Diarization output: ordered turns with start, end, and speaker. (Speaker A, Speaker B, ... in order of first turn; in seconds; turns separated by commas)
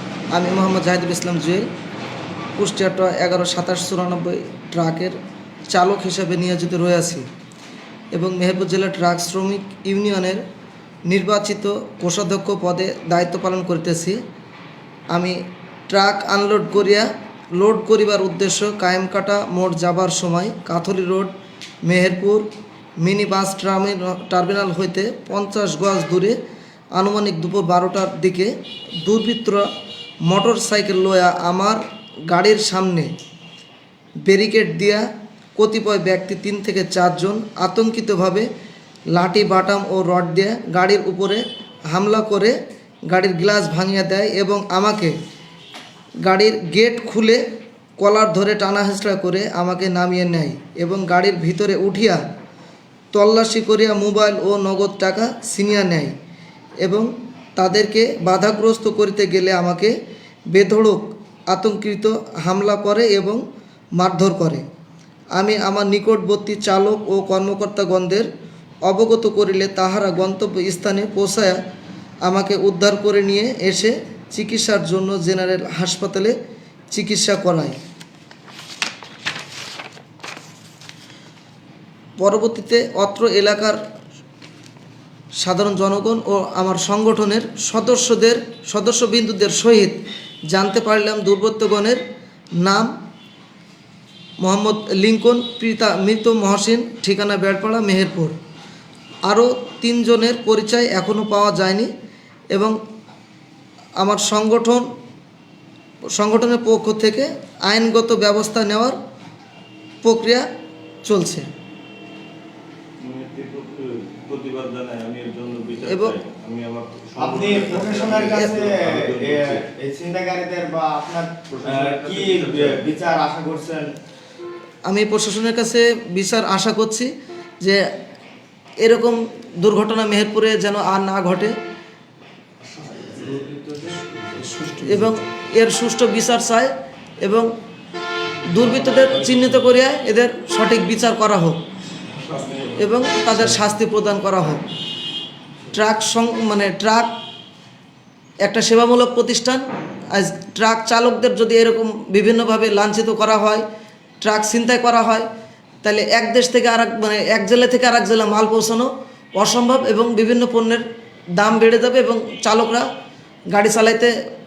Speaker A: 0.3-1.7, Speaker A: 2.6-5.2, Speaker A: 5.7-7.2, Speaker A: 8.1-10.4, Speaker A: 11.1-14.2, Speaker A: 15.1-15.4, Speaker A: 15.9-21.3, Speaker A: 21.9-22.5, Speaker A: 23.0-26.4, Speaker A: 27.0-29.7, Speaker A: 30.3-33.1, Speaker A: 34.2-38.5, Speaker A: 39.1-42.5, Speaker A: 43.1-45.2, Speaker A: 46.2-47.4, Speaker A: 48.0-52.2, Speaker A: 53.1-56.1, Speaker A: 56.8-60.0, Speaker A: 60.5-63.4, Speaker A: 64.0-64.6, Speaker A: 65.3-68.3, Speaker A: 68.8-71.6, Speaker A: 72.2-76.3, Speaker A: 76.9-77.8, Speaker A: 82.2-83.8, Speaker A: 85.4-92.0, Speaker A: 92.6-92.9, Speaker A: 94.4-98.3, Speaker A: 99.3-101.9, Speaker A: 104.0-104.9, Speaker A: 106.1-109.0, Speaker A: 110.0-110.4, Speaker A: 111.0-111.5, Speaker B: 113.0-119.7, Speaker A: 115.8-116.2, Speaker C: 117.2-123.9, Speaker B: 121.5-122.9, Speaker A: 124.9-127.8, Speaker A: 128.8-131.6, Speaker B: 132.8-134.5, Speaker A: 134.6-136.7, Speaker A: 137.2-137.5, Speaker A: 138.4-141.6, Speaker B: 142.3-142.6, Speaker A: 142.8-144.6, Speaker A: 145.7-147.1, Speaker A: 148.4-153.7, Speaker A: 154.2-155.3, Speaker A: 155.8-160.8, Speaker A: 161.4-162.9, Speaker A: 163.5-164.1